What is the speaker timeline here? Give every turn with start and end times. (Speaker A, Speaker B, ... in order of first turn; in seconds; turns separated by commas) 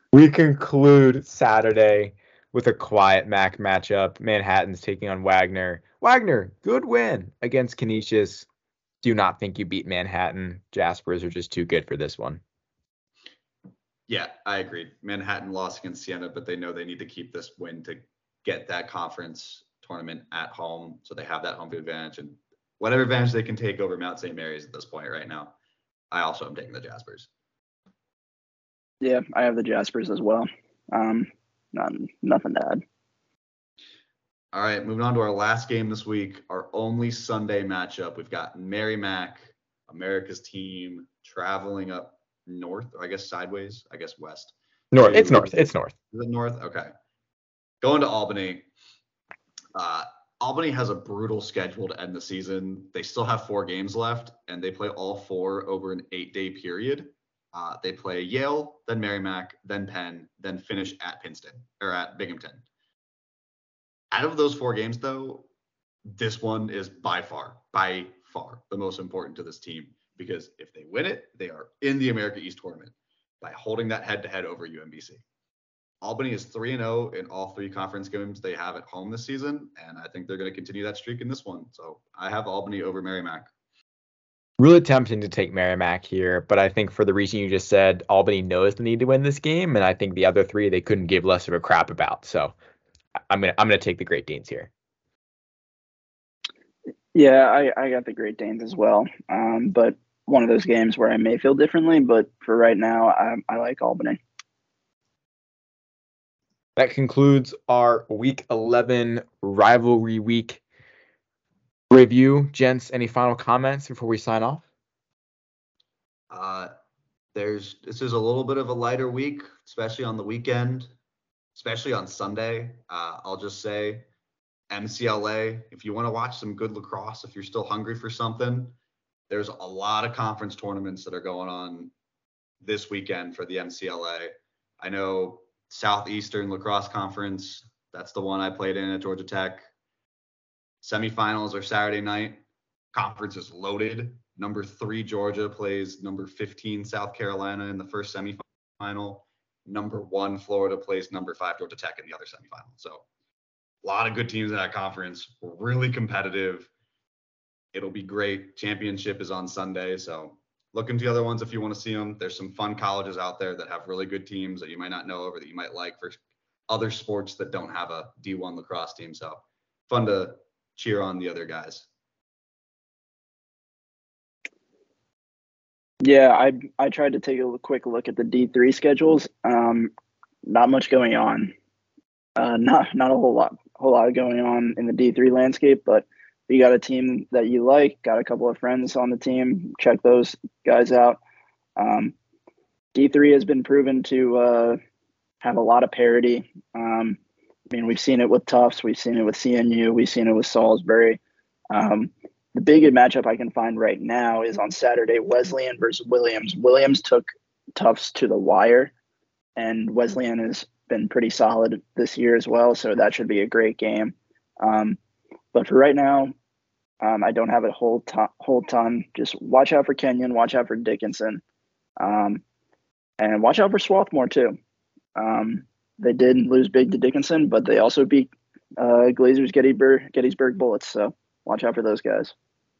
Speaker A: 0.1-8.5, Speaker A: 9.0-12.4, Speaker B: 14.1-25.5, Speaker B: 26.1-27.3, Speaker C: 29.0-32.8, Speaker B: 34.5-45.5, Speaker A: 44.9-45.9, Speaker B: 46.1-46.9, Speaker B: 47.8-48.7, Speaker B: 49.7-62.6, Speaker B: 64.1-65.5, Speaker B: 66.1-75.2, Speaker B: 76.0-83.5, Speaker A: 84.6-92.5, Speaker A: 93.3-94.7, Speaker C: 97.1-104.2, Speaker A: 106.8-110.6, Speaker A: 111.9-114.6, Speaker B: 116.3-116.7, Speaker B: 117.3-120.9, Speaker B: 121.5-124.1, Speaker B: 124.7-128.8, Speaker B: 129.3-131.9, Speaker B: 132.6-139.7, Speaker B: 140.8-142.4, Speaker B: 142.9-153.1, Speaker B: 153.8-156.7, Speaker B: 157.7-171.9, Speaker C: 176.0-179.9, Speaker C: 180.4-181.5, Speaker C: 182.4-191.2, Speaker C: 191.8-192.1, Speaker C: 192.9-194.8, Speaker C: 195.4-197.2, Speaker C: 197.7-201.2, Speaker C: 201.7-208.9, Speaker C: 209.6-215.0, Speaker C: 215.5-216.3, Speaker C: 217.0-221.4, Speaker C: 222.0-222.4, Speaker C: 223.2-224.6, Speaker C: 225.2-232.3